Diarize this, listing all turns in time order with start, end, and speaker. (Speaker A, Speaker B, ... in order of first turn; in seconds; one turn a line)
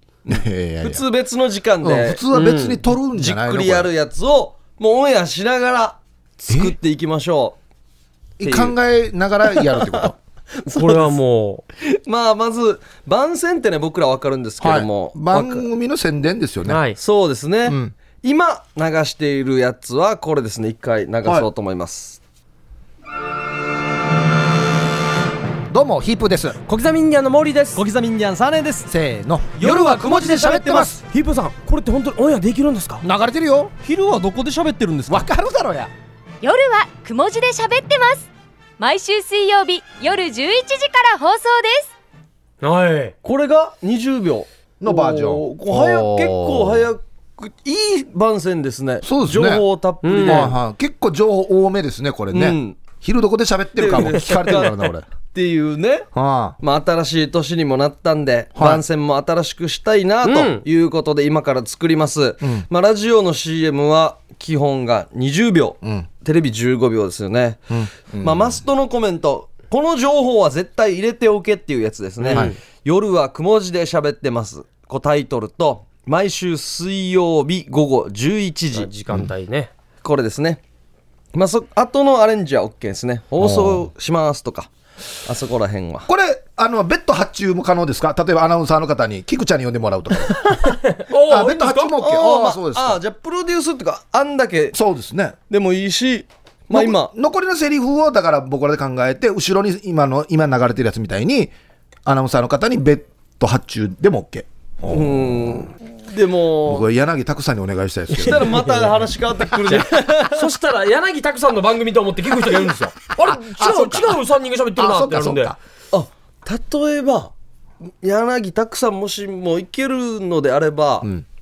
Speaker A: 0.3-1.0
Speaker B: 0.8-2.2
Speaker A: 1.8-3.9
Speaker C: 2.3-2.8
Speaker B: 3.1-7.6
Speaker A: 6.5-6.7
Speaker A: 8.4-10.2
Speaker B: 8.4-8.8
Speaker B: 9.6-10.1
Speaker B: 10.6-11.1
Speaker C: 10.7-11.6
Speaker B: 11.8-15.7
Speaker A: 14.6-16.8
Speaker C: 16.6-17.0
Speaker B: 17.0-22.2
Speaker A: 17.6-17.9
Speaker A: 25.7-26.6
Speaker C: 26.7-27.8
Speaker B: 27.7-28.9
Speaker A: 28.9-29.7
Speaker B: 29.6-31.0
Speaker C: 29.6-33.0
Speaker A: 30.4-31.0
Speaker A: 33.0-33.7
Speaker B: 33.8-35.2
Speaker A: 35.1-35.9
Speaker D: 36.4-41.9
Speaker C: 42.6-43.1
Speaker B: 43.2-50.5
Speaker A: 44.8-46.9
Speaker A: 49.0-49.6
Speaker C: 50.0-50.5
Speaker A: 50.2-55.0
Speaker B: 52.3-52.8
Speaker B: 53.8-56.1
Speaker A: 56.1-56.6
Speaker B: 56.6-67.7
Speaker A: 58.5-58.8
Speaker C: 60.2-60.6
Speaker A: 62.4-62.6
Speaker A: 65.8-66.1
Speaker A: 67.7-68.6
Speaker B: 68.2-78.9
Speaker C: 72.2-72.6
Speaker C: 78.7-79.7
Speaker B: 80.0-80.6
Speaker B: 81.3-84.7
Speaker A: 83.4-83.9
Speaker B: 85.2-86.1
Speaker A: 86.1-90.5
Speaker C: 90.7-91.9
Speaker A: 91.3-93.0
Speaker B: 92.0-94.8
Speaker A: 94.7-95.3
Speaker B: 95.5-97.1
Speaker A: 96.7-101.5
Speaker A: 102.0-105.7
Speaker B: 104.9-106.9
Speaker A: 106.6-108.6
Speaker C: 108.2-108.9
Speaker B: 108.2-110.5
Speaker C: 109.6-115.5
Speaker A: 113.2-114.2
Speaker A: 114.8-115.6
Speaker B: 115.9-117.3
Speaker B: 118.0-121.1